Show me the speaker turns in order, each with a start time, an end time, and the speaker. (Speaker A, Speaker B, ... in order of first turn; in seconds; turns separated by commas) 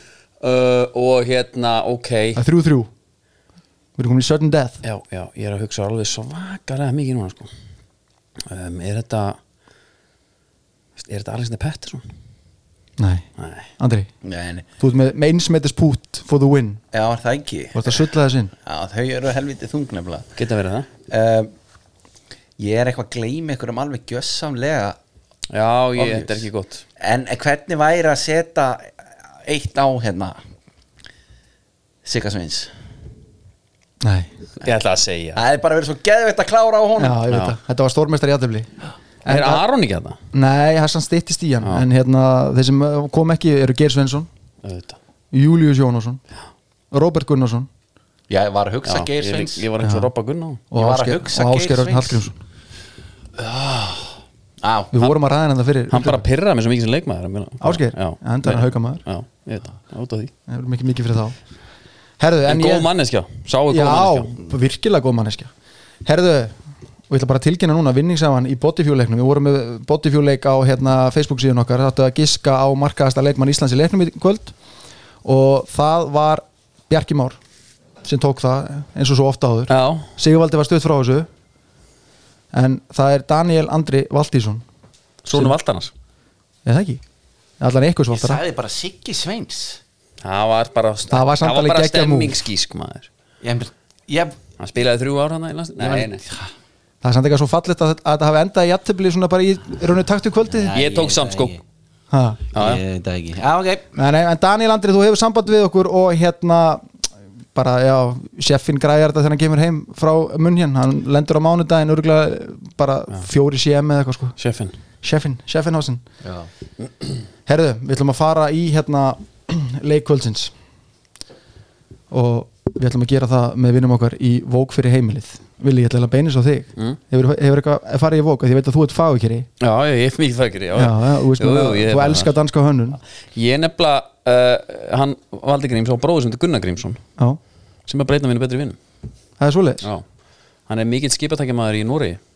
Speaker A: 0.4-2.4, Speaker B: 2.4-2.9, Speaker B: 4.0-4.8, Speaker A: 4.8-7.5, Speaker A: 8.4-9.4, Speaker A: 11.0-12.0, Speaker B: 13.0-14.1, Speaker A: 13.4-13.7, Speaker C: 14.2-14.7, Speaker B: 14.8-16.8, Speaker C: 16.9-18.0, Speaker B: 17.7-18.5, Speaker C: 18.6-20.3, Speaker A: 20.4-20.9, Speaker C: 21.1-21.5, Speaker C: 22.6-25.0, Speaker A: 25.5-26.8, Speaker C: 26.0-26.5, Speaker C: 27.0-28.9, Speaker C: 29.5-30.4, Speaker C: 32.0-32.7, Speaker B: 34.0-34.3, Speaker A: 34.6-35.4, Speaker C: 35.4-37.2, Speaker B: 37.0-38.7, Speaker A: 37.3-37.5, Speaker B: 39.2-39.6, Speaker A: 39.3-40.2, Speaker B: 40.3-44.3, Speaker A: 44.6-45.0, Speaker B: 45.3-46.2, Speaker B: 46.9-47.7, Speaker C: 48.3-49.6, Speaker A: 48.9-50.6, Speaker B: 49.8-50.1, Speaker B: 50.7-52.4, Speaker C: 50.8-52.2, Speaker C: 53.4-54.0, Speaker C: 54.6-54.9, Speaker B: 54.9-56.2, Speaker A: 55.9-60.3, Speaker B: 57.6-59.0, Speaker B: 60.5-61.4, Speaker B: 62.2-62.9, Speaker A: 62.5-64.3, Speaker B: 63.7-65.5, Speaker B: 66.0-66.6, Speaker B: 67.1-74.5, Speaker B: 75.2-77.4, Speaker B: 78.0-81.3, Speaker A: 79.7-80.1, Speaker B: 82.5-84.7, Speaker A: 85.2-85.9, Speaker B: 86.7-87.0, Speaker B: 87.6-88.4, Speaker C: 88.1-89.8, Speaker A: 90.2-93.1, Speaker B: 91.1-92.4, Speaker C: 93.4-94.4, Speaker A: 94.6-96.2, Speaker C: 95.8-96.5, Speaker B: 97.0-100.7, Speaker C: 100.5-101.6, Speaker A: 100.7-101.5, Speaker B: 102.1-102.4, Speaker A: 102.5-102.8, Speaker C: 102.5-103.9, Speaker B: 104.0-106.9, Speaker B: 107.5-114.4, Speaker A: 114.4-114.7, Speaker B: 115.0-116.0, Speaker C: 116.2-116.5, Speaker B: 117.5-120.5, Speaker B: 122.1-129.5, Speaker A: 129.6-132.3, Speaker B: 130.8-133.0, Speaker A: 133.3-137.0, Speaker A: 137.9-138.8, Speaker B: 139.4-139.9, Speaker A: 140.7-142.2